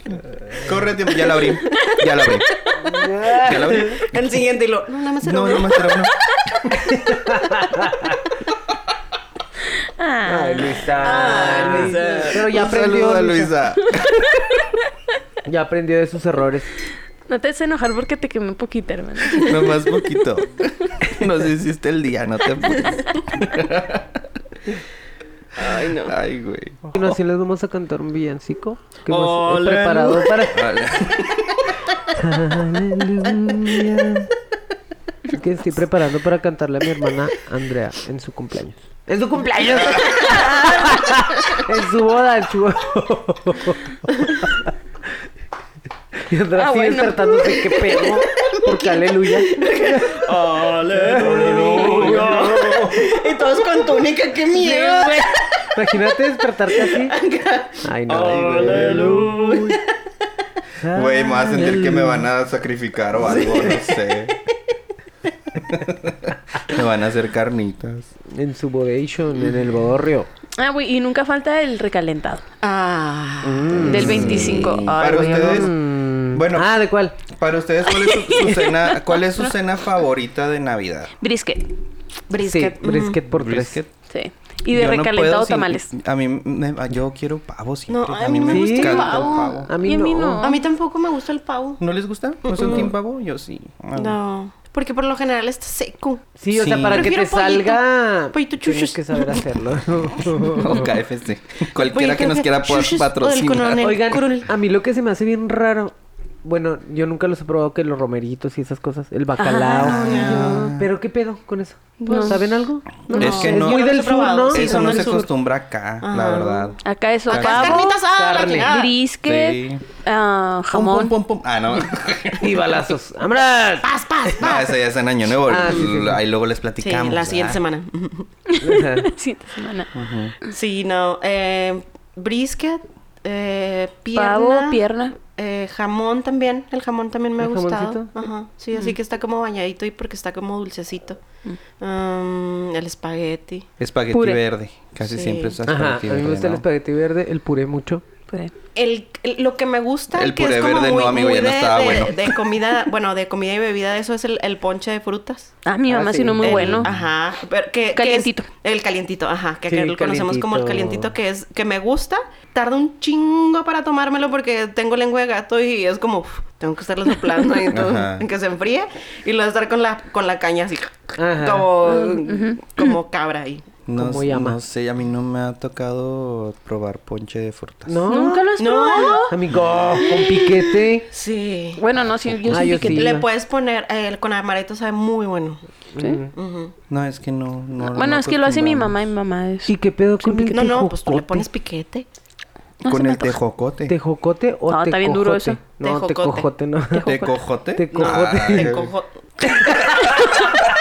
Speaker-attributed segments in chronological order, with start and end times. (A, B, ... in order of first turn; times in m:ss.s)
0:00.5-0:02.5 A
0:02.8-0:03.9 B
0:03.3-0:04.2 A
0:03.4-0:06.1 C
0:05.2-0:06.1 A
0:06.9-0:08.2 B
0:10.0-0:12.0 D
0:10.2-0:13.5 B
0:11.0-0:12.5 C
0:12.3-0:14.3 A
0:13.9-0:14.7 D
0:15.4-0:16.7 B
0:17.3-0:20.1 D
0:19.3-0:24.2 A
0:25.6-0:26.1 C
0:25.6-0:27.2 A
0:26.9-0:30.7 B
0:29.0-0:30.4 C
0:30.5-0:31.6 A
0:32.1-0:34.3 B
0:35.3-0:44.7 B
0:39.7-0:40.2 A
0:40.2-0:40.9 C
0:46.2-0:50.3 B
0:46.6-0:48.0 D
0:48.4-0:55.8 C
0:50.9-0:53.0 B
0:51.4-0:52.1 A
0:54.6-0:55.2 B
0:55.7-0:57.1 B
0:56.7-0:59.9 C
0:57.8-0:59.8 B
0:58.2-0:59.3 A
1:00.8-1:02.3 B
1:00.9-1:04.3 A
1:03.2-1:04.1 C
1:05.6-1:08.1 A
1:08.2-1:10.3 B
1:10.6-1:12.4 D
1:12.6-1:15.7 C
1:13.4-1:17.2 B
1:13.8-1:15.7 A
1:13.9-1:15.2 D
1:16.3-1:21.1 A
1:17.9-1:19.5 D
1:21.2-1:21.7 D
1:22.3-1:23.2 C
1:22.4-1:23.8 B
1:23.3-1:23.9 A
1:24.1-1:25.9 D
1:24.7-1:29.7 A
1:27.9-1:29.6 C
1:28.5-1:30.4 B
1:28.8-1:30.7 D
1:30.4-1:31.8 C
1:31.8-1:34.2 A
1:32.4-1:32.9 C
1:33.9-1:36.3 C
1:36.4-1:40.9 B
1:36.5-1:37.1 A
1:36.9-1:39.4 C
1:40.5-1:43.9 A
1:41.8-1:44.5 C
1:43.8-1:55.3 B
1:49.4-1:50.0 D
1:49.8-1:50.7 C
1:49.8-1:50.9 A
1:52.0-1:52.5 D
1:52.0-1:52.4 C
1:53.1-1:53.5 D
1:53.1-1:55.3 C
1:53.1-1:57.8 A
1:56.0-1:58.9 C
1:56.8-2:01.2 D
1:58.0-1:58.7 B
1:59.2-1:59.8 A
2:00.7-2:02.8 A
2:02.4-2:03.9 B
2:03.8-2:04.8 C
2:04.4-2:07.6 A
2:05.5-2:06.2 B
2:06.8-2:08.3 C
2:08.5-2:09.9 D
2:08.6-2:09.1 B
2:09.9-2:10.3 A
2:10.5-2:21.2 C
2:14.2-2:15.1 D
2:17.4-2:18.1 B
2:21.8-2:23.7 C
2:23.8-2:26.6 A
2:24.1-2:24.4 D
2:25.0-2:25.6 C
2:25.6-2:28.0 B
2:28.7-2:35.5 C
2:30.1-2:32.4 A
2:35.6-2:36.9 D
2:35.9-2:36.9 B
2:36.4-2:53.7 C
2:37.9-2:38.4 D
2:39.7-2:41.1 B
2:47.7-2:48.2 A
2:51.2-2:51.7 B
2:51.8-2:52.9 D
2:53.8-2:58.0 A
2:53.9-2:54.6 B
2:57.9-2:58.5 B
2:58.1-2:59.3 D
2:58.6-2:59.3 C
2:59.2-3:01.0 B
3:00.0-3:01.8 C
3:01.8-3:03.2 D
3:02.1-3:02.7 A
3:02.5-3:03.2 B
3:02.8-3:05.6 C
3:05.9-3:06.3 B
3:06.3-3:06.7 C
3:06.9-3:08.9 A
3:07.8-3:10.8 D
3:09.7-3:11.4 B
3:10.5-3:12.1 C
3:12.8-3:13.4 D
3:12.8-3:13.9 A
3:13.9-3:17.0 B
3:14.7-3:15.6 D
3:15.8-3:16.5 C
3:16.9-3:17.4 D
3:17.0-3:18.9 A
3:17.7-3:18.8 B
3:17.9-3:20.0 C
3:19.5-3:20.6 B